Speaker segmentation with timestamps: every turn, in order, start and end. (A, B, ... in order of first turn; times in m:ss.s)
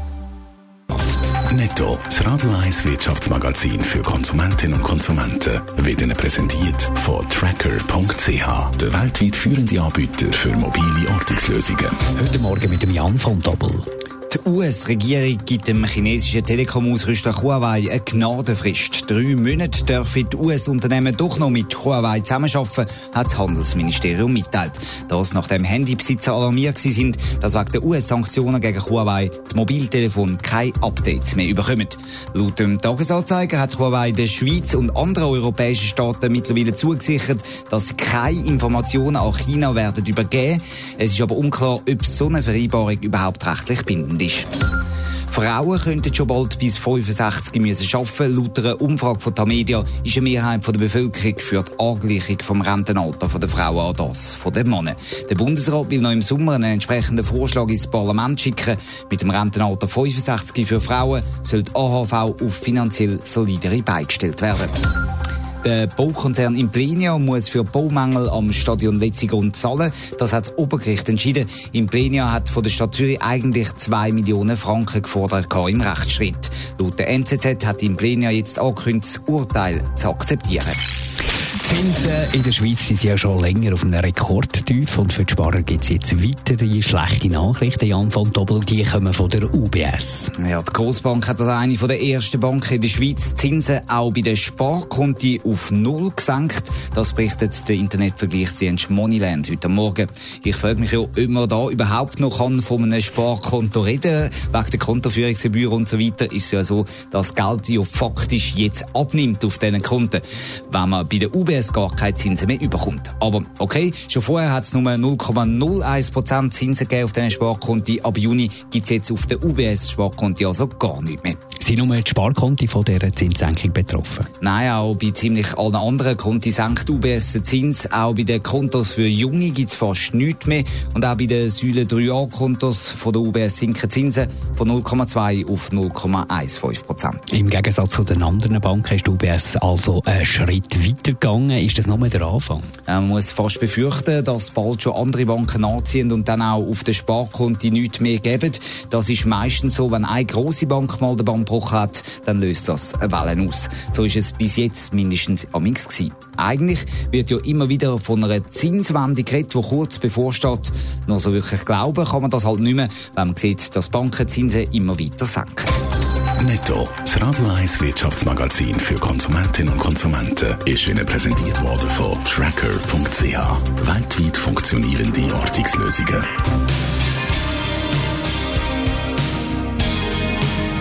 0:01.4-0:12.1 A
0:12.1-0:13.9 B
0:14.3-0:44.5 C
0:45.3-1:04.8 C
1:05.6-1:20.8 C
1:21.6-1:30.3 B
1:30.4-2:01.4 C
2:01.6-2:04.3 B
2:04.4-2:17.3 C
2:17.3-2:22.7 B
2:22.9-2:45.7 C
2:46.4-2:56.3 A